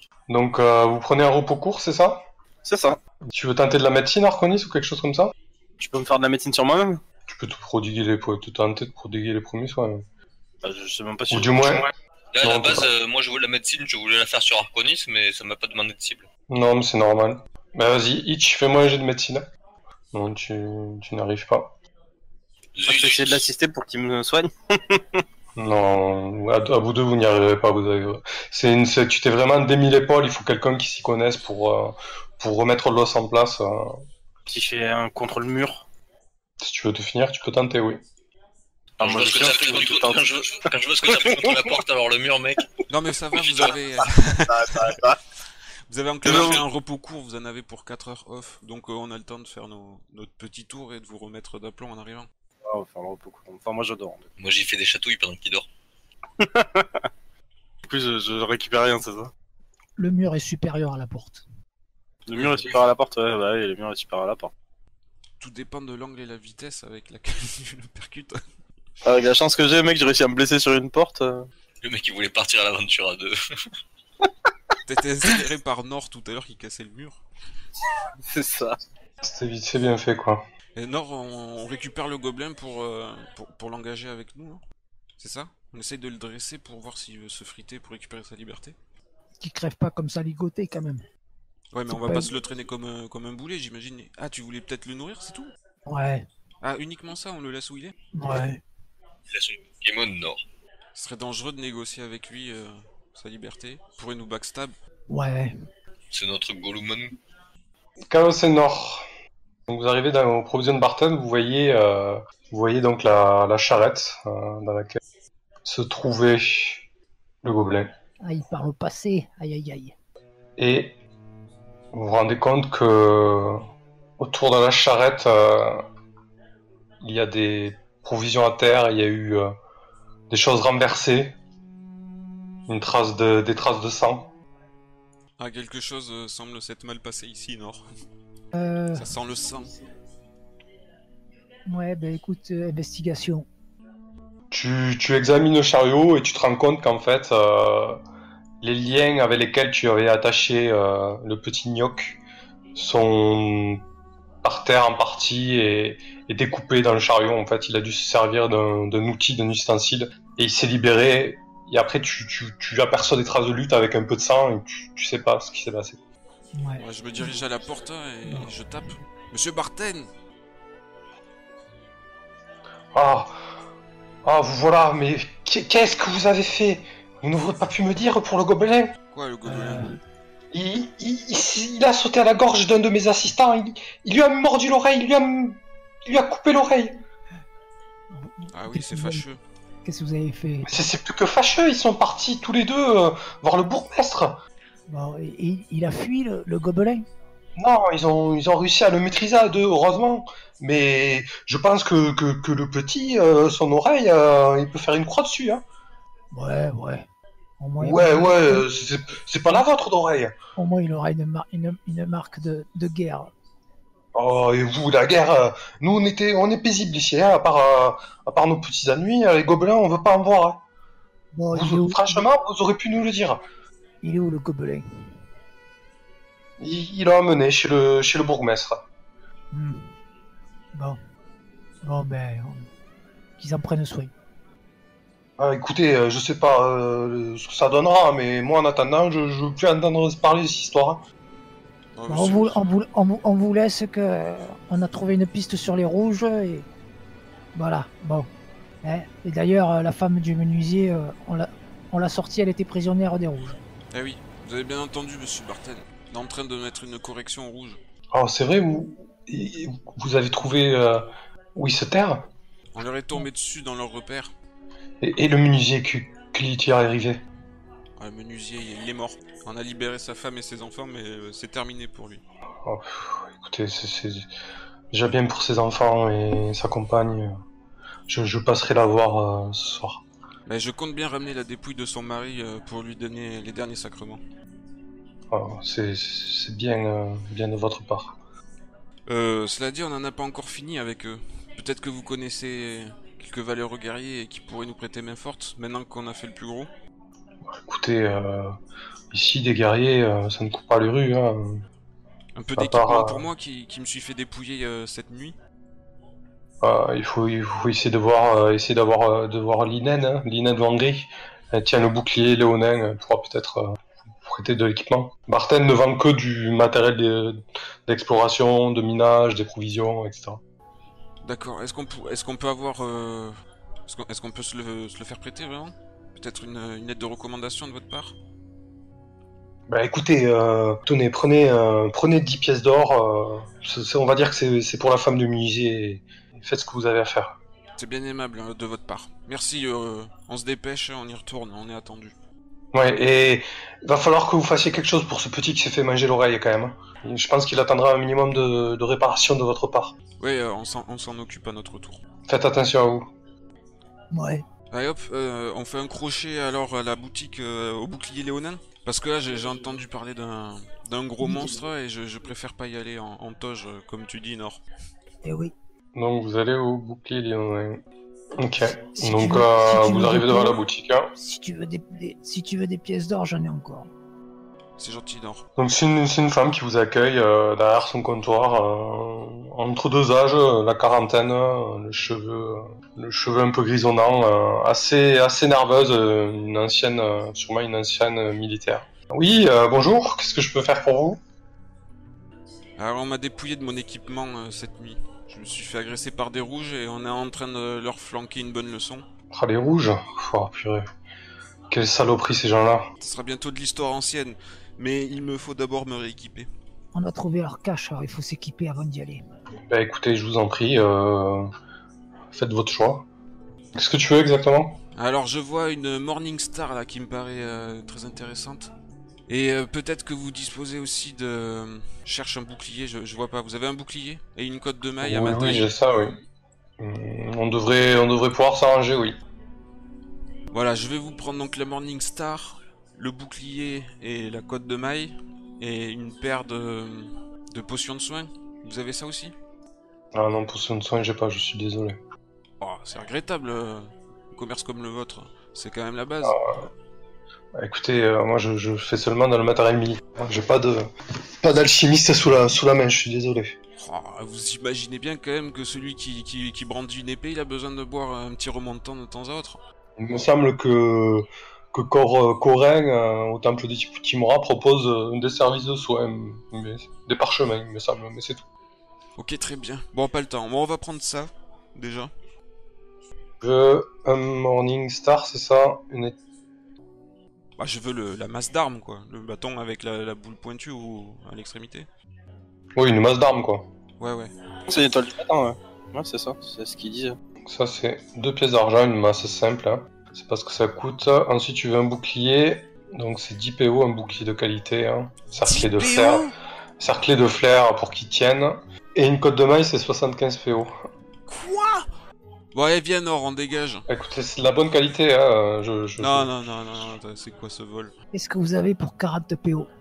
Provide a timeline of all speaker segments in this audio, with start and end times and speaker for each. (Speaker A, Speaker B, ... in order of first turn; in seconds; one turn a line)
Speaker A: 0.3-2.2
Speaker B: 2.6-3.0
Speaker A: 3.2-5.3
Speaker B: 5.8-7.0
Speaker A: 7.3-10.0
Speaker B: 10.6-11.9
Speaker A: 11.3-11.9
Speaker C: 12.3-16.3
Speaker A: 12.4-12.9
Speaker A: 16.5-19.5
Speaker A: 20.1-21.7
Speaker C: 22.8-23.5
Speaker B: 22.9-25.2
Speaker A: 25.6-34.0
Speaker B: 34.5-35.9
Speaker A: 36.6-38.0
Speaker C: 39.0-42.7
Speaker B: 39.0-41.8
Speaker D: 42.9-45.0
Speaker C: 43.4-43.7
Speaker B: 43.6-45.2
Speaker D: 45.9-52.3
Speaker B: 46.2-46.6
Speaker C: 46.3-46.6
Speaker B: 52.6-54.3
Speaker C: 54.4-55.7
Speaker B: 56.4-57.1
Speaker B: 57.9-59.3
Speaker E: 60.0-61.4
Speaker B: 62.3-64.5
Speaker D: 65.4-68.4
Speaker B: 69.0-71.5
Speaker C: 71.8-73.4
Speaker D: 74.8-77.2
Speaker B: 78.3-78.8
Speaker A: 79.2-80.4
Speaker D: 80.8-84.6
Speaker D: 85.2-88.8
Speaker E: 89.4-91.0
Speaker D: 91.7-95.5
Speaker E: 91.9-92.3
Speaker E: 95.9-96.3
Speaker D: 96.6-98.0
Speaker E: 98.2-98.6
Speaker C: 99.3-100.4
Speaker D: 101.0-104.8
Speaker E: 105.1-105.5
Speaker C: 106.1-107.2
Speaker A: 108.1-109.1
Speaker A: 109.7-115.0
Speaker A: 115.7-116.8
Speaker A: 117.4-117.9
Speaker E: 118.2-120.0
Speaker A: 120.6-121.0
Speaker A: 121.9-123.6
Speaker A: 124.2-125.8
Speaker A: 127.0-129.5
Speaker A: 130.3-131.3
Speaker A: 132.7-134.3
Speaker D: 135.4-137.8
Speaker E: 138.5-139.1
Speaker D: 139.0-139.7
Speaker E: 141.7-143.5
Speaker A: 144.5-148.0
Speaker A: 148.6-152.2
Speaker A: 152.8-153.8
Speaker A: 154.4-166.0
Speaker E: 166.6-167.3
Speaker D: 166.8-170.1
Speaker A: 172.9-173.4
Speaker A: 174.2-179.0
Speaker D: 179.1-179.9
Speaker E: 179.5-180.0
Speaker A: 180.5-187.0
Speaker E: 188.1-189.2
Speaker D: 188.5-189.4
Speaker E: 189.8-190.8
Speaker A: 190.7-194.4
Speaker E: 194.9-197.1
Speaker A: 197.6-205.7
Speaker E: 206.3-207.1
Speaker E: 207.6-208.7
Speaker A: 207.8-210.3
Speaker E: 210.6-213.3
Speaker A: 214.2-220.6
Speaker E: 221.3-222.3
Speaker A: 221.5-223.4
Speaker E: 224.0-224.8
Speaker A: 226.6-228.8
Speaker E: 229.5-229.9
Speaker E: 230.7-231.0
Speaker E: 231.8-232.7
Speaker E: 233.4-234.1
Speaker A: 235.4-241.0
Speaker D: 242.0-242.6
Speaker E: 242.1-246.7
Speaker E: 247.6-248.3
Speaker E: 248.8-253.6
Speaker D: 253.9-257.8
Speaker A: 258.1-262.3
Speaker D: 262.8-264.3
Speaker A: 265.0-267.2
Speaker D: 268.0-272.2
Speaker A: 272.6-274.3
Speaker A: 274.9-277.4
Speaker A: 278.1-280.0
Speaker D: 280.5-284.2
Speaker A: 285.3-288.2
Speaker D: 289.1-296.7
Speaker A: 297.5-298.6
Speaker A: 299.1-301.6
Speaker D: 302.4-305.4
Speaker A: 302.6-303.3
Speaker A: 306.6-320.4
Speaker D: 321.2-323.4
Speaker D: 323.9-328.1
Speaker A: 329.7-337.4
Speaker D: 337.8-342.1
Speaker A: 342.7-349.9
Speaker D: 350.2-352.0
Speaker A: 352.3-353.1
Speaker E: 354.1-354.4
Speaker D: 354.7-364.6
Speaker E: 361.2-361.6
Speaker E: 365.2-365.5
Speaker A: 365.9-367.8
Speaker A: 368.4-371.1
Speaker E: 369.0-370.6
Speaker E: 371.2-373.9
Speaker D: 374.8-375.4
Speaker A: 375.6-391.2
Speaker D: 392.8-399.1
Speaker A: 399.3-400.9
Speaker A: 401.7-402.9
Speaker D: 403.0-406.5
Speaker E: 406.9-409.2
Speaker A: 409.7-411.5
Speaker A: 412.3-413.1
Speaker A: 413.8-414.8
Speaker D: 414.9-418.7
Speaker D: 419.3-425.7
Speaker A: 425.0-426.2
Speaker A: 426.8-429.2
Speaker D: 430.5-439.3
Speaker A: 440.1-442.0
Speaker D: 442.6-446.4
Speaker A: 446.2-446.6
Speaker A: 447.6-450.9
Speaker A: 451.4-453.6
Speaker D: 453.8-459.6
Speaker A: 460.0-468.4
Speaker D: 469.2-472.1
Speaker A: 473.4-476.2
Speaker D: 477.6-481.9
Speaker A: 482.8-483.7
Speaker D: 484.0-484.3
Speaker B: 484.7-487.2
Speaker A: 487.4-500.8
Speaker D: 495.4-496.4
Speaker D: 501.3-501.9
Speaker D: 502.5-503.9
Speaker A: 503.9-506.3
Speaker D: 506.0-507.9
Speaker E: 508.1-509.7